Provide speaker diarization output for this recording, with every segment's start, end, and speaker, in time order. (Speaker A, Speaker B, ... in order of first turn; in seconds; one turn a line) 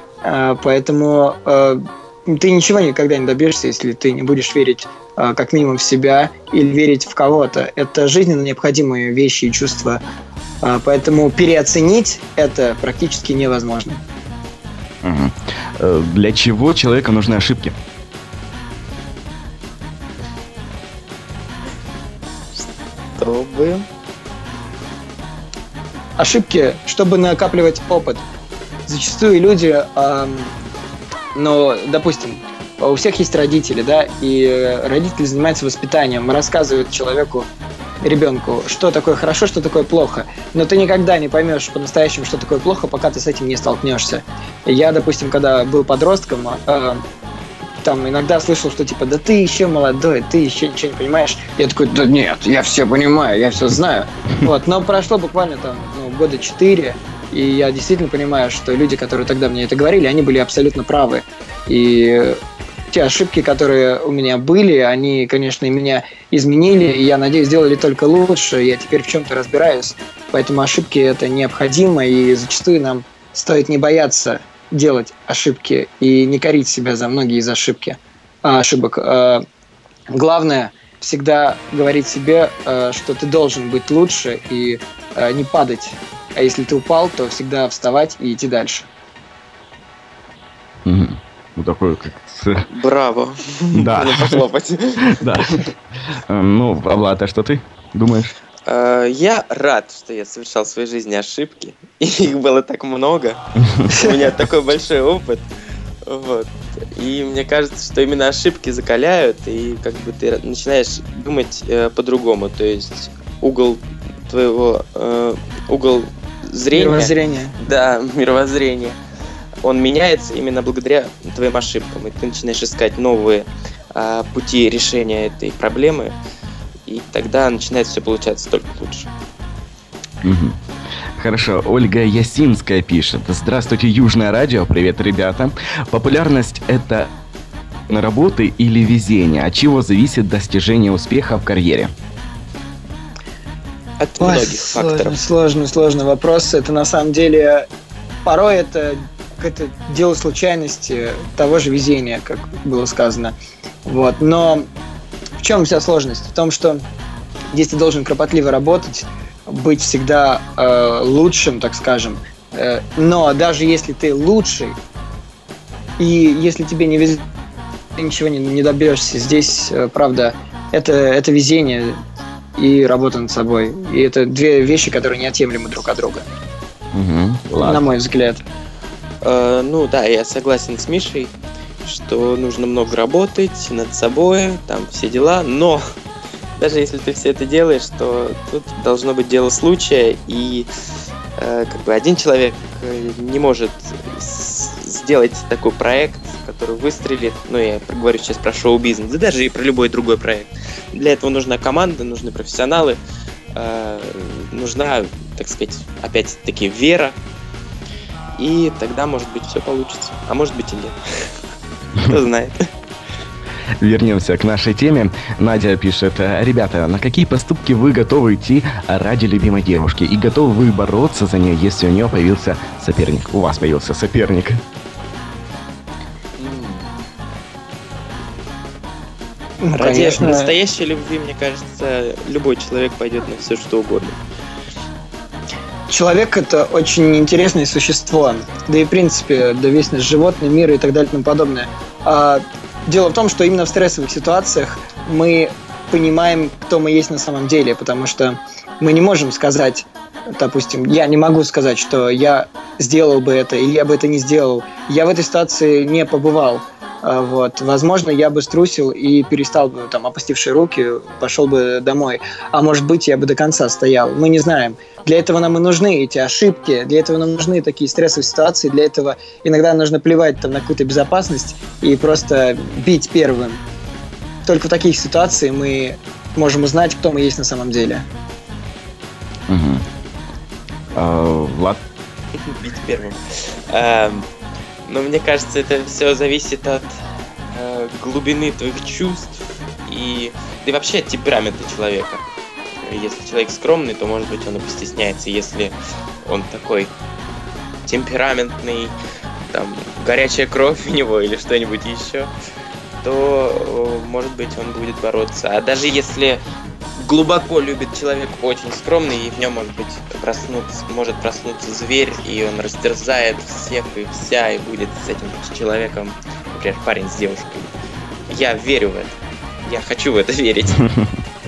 Speaker A: 0.2-10.0
Speaker A: 10.6-14.0
Speaker B: 15.0-17.7
Speaker C: 23.2-23.9
Speaker A: 26.2-28.2
Speaker A: 28.9-30.5
Speaker A: 31.3-37.5
Speaker A: 38.0-47.0
Speaker A: 47.8-62.4
Speaker A: 62.9-79.4
Speaker A: 80.1-88.9
Speaker B: 90.8-92.7
Speaker C: 92.7-95.3
Speaker B: 93.7-94.4
Speaker B: 95.1-98.3
Speaker C: 98.7-105.4
Speaker C: 106.1-119.0
Speaker A: 116.7-117.6
Speaker C: 119.6-126.1
Speaker C: 126.9-129.1
Speaker B: 130.2-130.6
Speaker B: 131.2-137.1
Speaker B: 137.9-141.9
Speaker C: 144.0-145.2
Speaker A: 144.2-147.7
Speaker A: 148.2-154.7
Speaker A: 155.4-156.8
Speaker A: 157.5-164.8
Speaker A: 166.0-167.2
Speaker A: 167.9-172.0
Speaker A: 172.6-176.2
Speaker B: 176.9-177.9
Speaker A: 177.6-178.4
Speaker C: 179.2-185.8
Speaker C: 186.6-190.7
Speaker C: 191.4-203.0
Speaker C: 203.6-207.1
Speaker C: 208.4-210.9
Speaker C: 212.0-212.6
Speaker B: 213.8-224.6
Speaker C: 226.4-226.9
Speaker A: 229.6-230.5
Speaker C: 229.8-234.2
Speaker A: 235.9-273.6
Speaker A: 274.4-278.1
Speaker B: 279.5-279.8
Speaker B: 280.9-281.8
Speaker C: 282.5-283.2
Speaker C: 283.7-284.3
Speaker C: 284.8-286.9
Speaker C: 287.5-292.2
Speaker C: 292.8-295.7
Speaker C: 296.2-296.9
Speaker C: 297.9-298.9
Speaker C: 299.5-302.3
Speaker C: 303.0-306.4
Speaker C: 307.0-317.7
Speaker C: 318.3-320.8